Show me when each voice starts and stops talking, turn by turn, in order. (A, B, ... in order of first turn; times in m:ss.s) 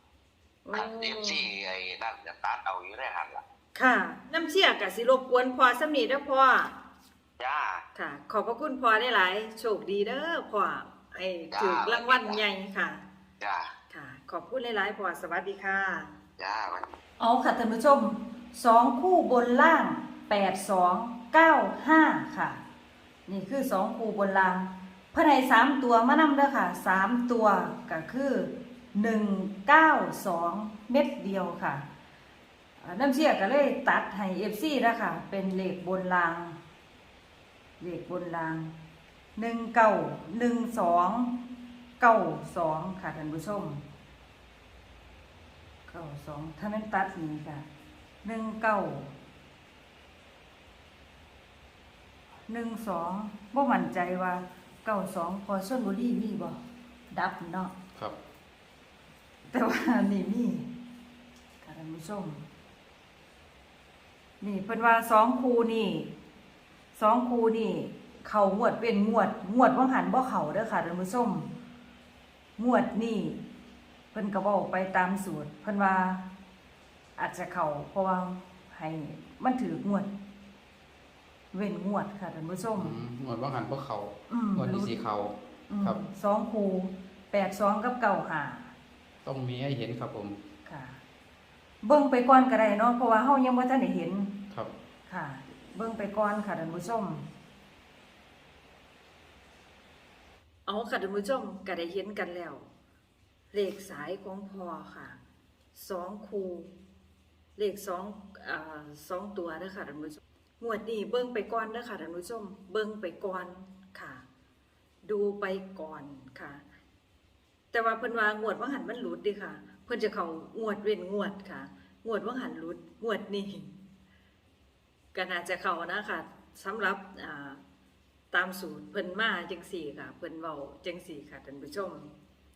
0:00.6-0:01.4 A
0:00.7-0:03.4 B
0:03.7-0:06.7 A
0:07.4-0:07.8 B
0:07.9-0:13.0 A
0:11.5-0:12.4 B
0:13.4-0:13.7 B
0:13.9-0:16.1 A
0:16.4-0:16.9 B
0:17.2-0:22.6 A
0:23.3-0:31.8 A
0:32.8-0:36.6 A
0:37.8-0:38.7 A
0:39.4-0:41.3 A
0:42.0-0:43.8 A
0:45.9-0:47.6 A
0:48.2-0:49.1 A
0:52.5-0:56.6 A
0:57.1-0:57.7 A
0:59.5-1:00.7 A
1:01.6-1:02.4 A
1:04.4-1:06.1 A
1:06.9-1:11.5 A
1:12.6-1:13.4 A
1:14.1-1:16.2 A
1:17.2-1:20.1 A
1:21.5-1:23.0 A
1:22.7-1:26.0 C
1:24.3-1:25.0 A
1:25.7-1:28.7 A
1:29.2-1:30.4 C
1:30.6-1:31.0 A
1:31.8-1:34.3 A
1:35.1-1:37.2 A
1:40.7-1:42.7 A
1:43.5-1:45.2 A
1:45.7-1:46.7 A
1:47.6-1:54.2 A
1:55.0-1:56.6 A
1:57.7-2:03.7 A
2:05.1-2:07.6 A
2:08.3-2:12.1 A